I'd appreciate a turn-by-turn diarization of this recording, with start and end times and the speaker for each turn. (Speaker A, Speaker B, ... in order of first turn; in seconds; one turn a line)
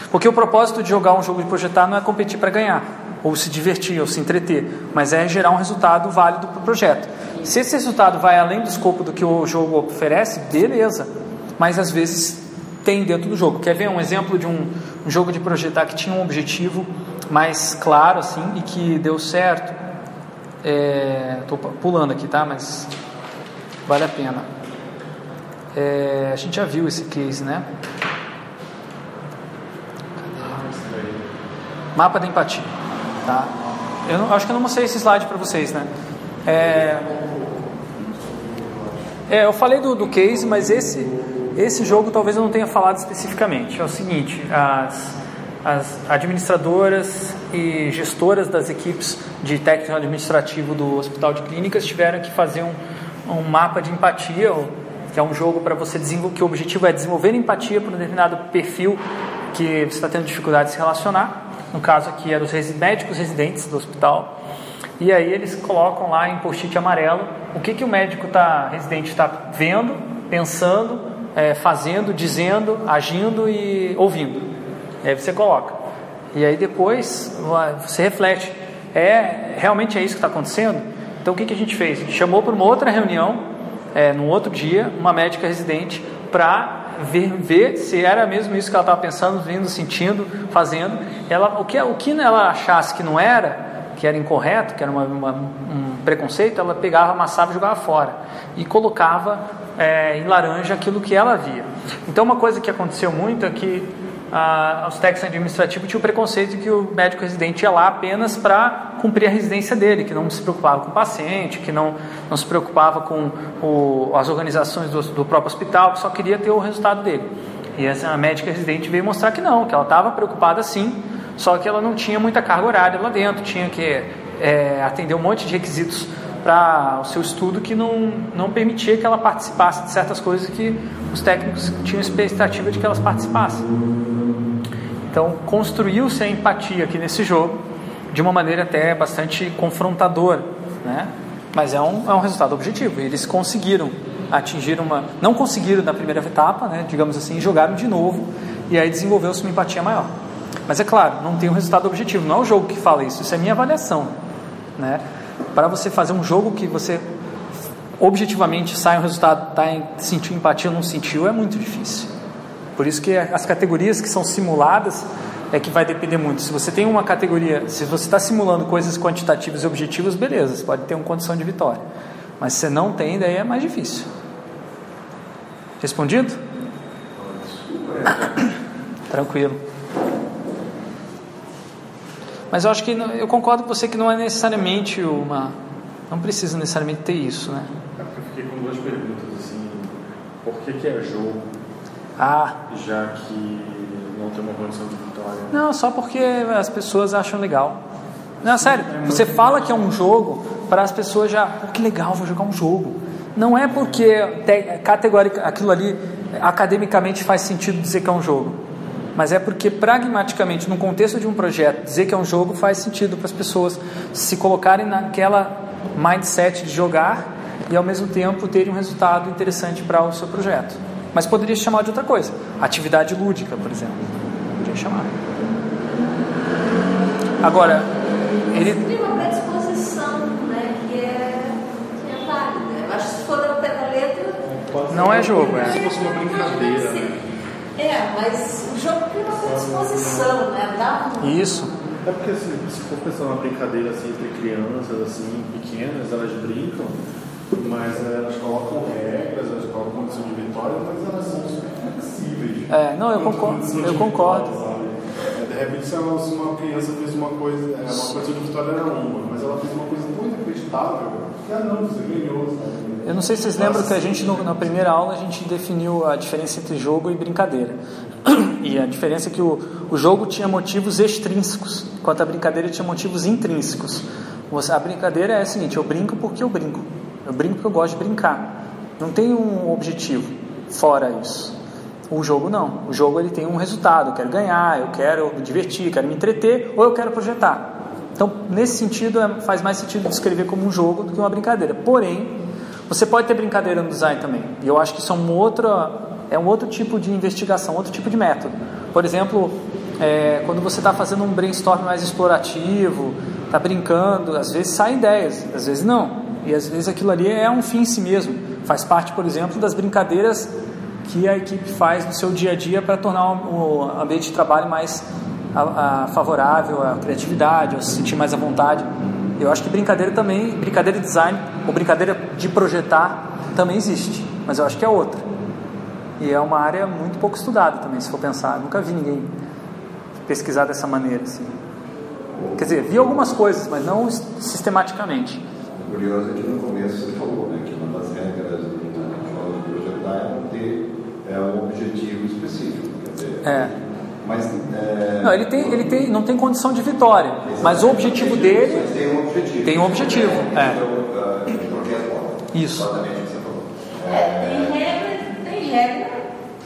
Speaker A: 0.1-19.8
Speaker A: 20.6-22.9
Speaker A: 23.9-24.5
Speaker A: 25.7-27.7
Speaker B: 30.2-31.3
Speaker A: 31.9-32.7
Speaker A: 33.2-33.5
Speaker A: 34.1-35.9
Speaker A: 36.5-37.1
Speaker A: 39.3-59.0
Speaker A: 59.5-64.3
Speaker A: 65.0-74.5
Speaker A: 75.0-75.8
Speaker A: 76.3-83.4
Speaker A: 83.9-133.7
Speaker A: 135.1-150.1
Speaker A: 150.7-154.1
Speaker A: 154.8-155.0
Speaker A: 155.5-157.0
Speaker A: 158.0-162.1
Speaker A: 162.8-171.8
Speaker A: 172.4-174.1
Speaker A: 175.8-176.4
Speaker C: 177.2-178.3
Speaker A: 179.1-179.6
Speaker A: 182.5-185.6
Speaker A: 186.1-187.7
Speaker B: 188.0-191.4
Speaker A: 192.2-192.6
Speaker B: 192.7-195.5
Speaker A: 195.5-197.8
Speaker A: 198.4-208.6
Speaker B: 198.4-199.3
Speaker A: 209.2-224.0
Speaker A: 224.6-225.1
Speaker A: 227.4-227.9
Speaker A: 228.5-228.9
Speaker D: 228.5-234.4
Speaker B: 234.4-237.2
Speaker A: 234.9-235.8
Speaker D: 235.6-237.1
Speaker D: 237.8-241.9
Speaker B: 239.4-240.4
Speaker A: 241.2-241.7
Speaker B: 242.0-246.9
Speaker B: 247.5-264.7
Speaker A: 252.7-254.5
Speaker A: 257.9-258.2
Speaker A: 263.1-281.5
Speaker A: 282.1-292.4
Speaker A: 292.9-310.5
Speaker A: 311.1-325.2
Speaker A: 326.2-329.3
Speaker A: 330.3-331.5
Speaker C: 332.3-333.4
Speaker A: 332.6-335.4
Speaker C: 335.8-345.9
Speaker A: 343.4-343.7
Speaker A: 345.2-348.9
Speaker C: 347.4-354.8
Speaker A: 349.6-350.8
Speaker A: 352.5-352.9
Speaker D: 354.1-356.2